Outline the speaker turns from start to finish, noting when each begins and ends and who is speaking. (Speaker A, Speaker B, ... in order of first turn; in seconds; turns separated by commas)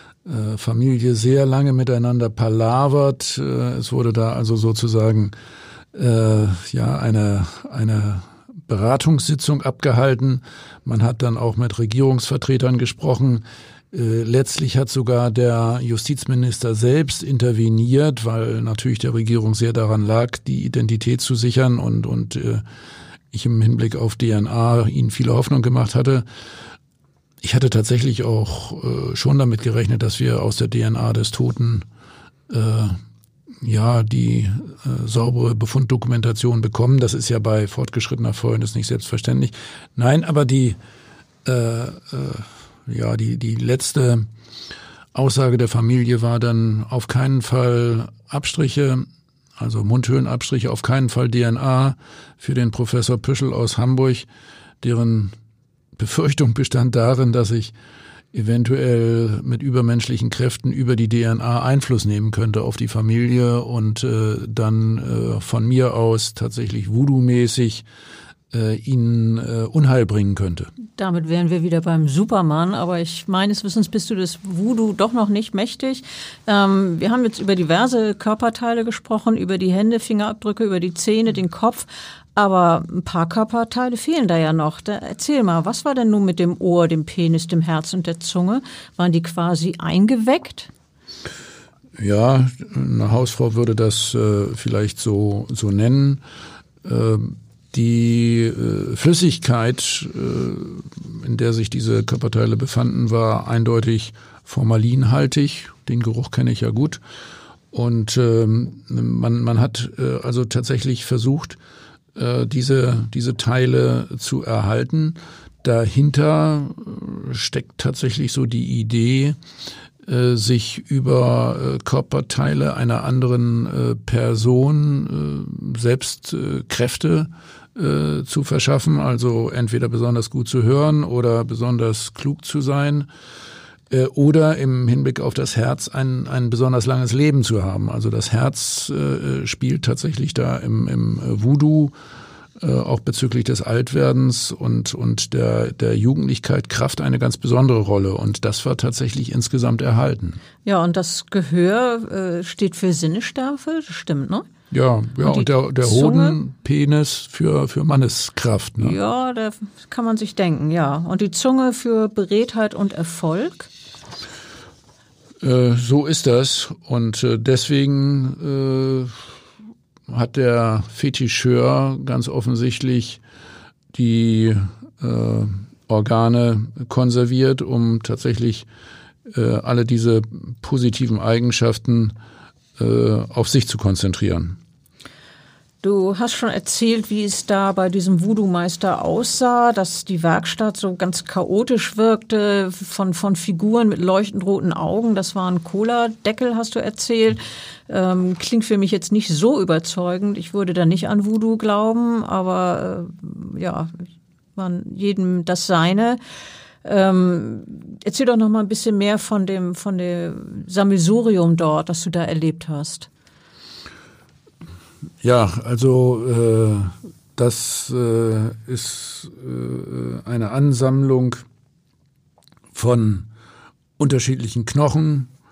Speaker A: 0.2-5.3, Speaker A: 5.9-22.6, Speaker A: 23.3-26.3, Speaker A: 27.4-31.9, Speaker A: 32.5-33.0, Speaker A: 33.6-40.8, Speaker A: 41.5-44.3, Speaker A: 45.1-49.1, Speaker A: 49.6-54.3, Speaker A: 54.8-55.4, Speaker A: 56.0-57.7, Speaker A: 58.3-67.8, Speaker A: 68.5-70.7, Speaker B: 71.0-90.7, Speaker A: 92.0-96.2, Speaker A: 96.8-107.0, Speaker A: 107.7-111.6, Speaker A: 112.2-119.4, Speaker A: 120.0-133.1, Speaker A: 133.9-141.9, Speaker A: 142.6-150.4, Speaker B: 150.7-154.5, Speaker A: 154.7-159.0, Speaker B: 155.2-156.4, Speaker B: 158.8-163.7, Speaker A: 165.4-169.3, Speaker A: 170.1-173.2, Speaker A: 173.9-178.7, Speaker A: 179.3-182.2, Speaker A: 182.8-184.6, Speaker B: 185.8-203.9, Speaker B: 204.6-206.2, Speaker B: 206.8-213.1, Speaker A: 215.2-221.4, Speaker A: 222.7-223.3, Speaker A: 224.0-225.3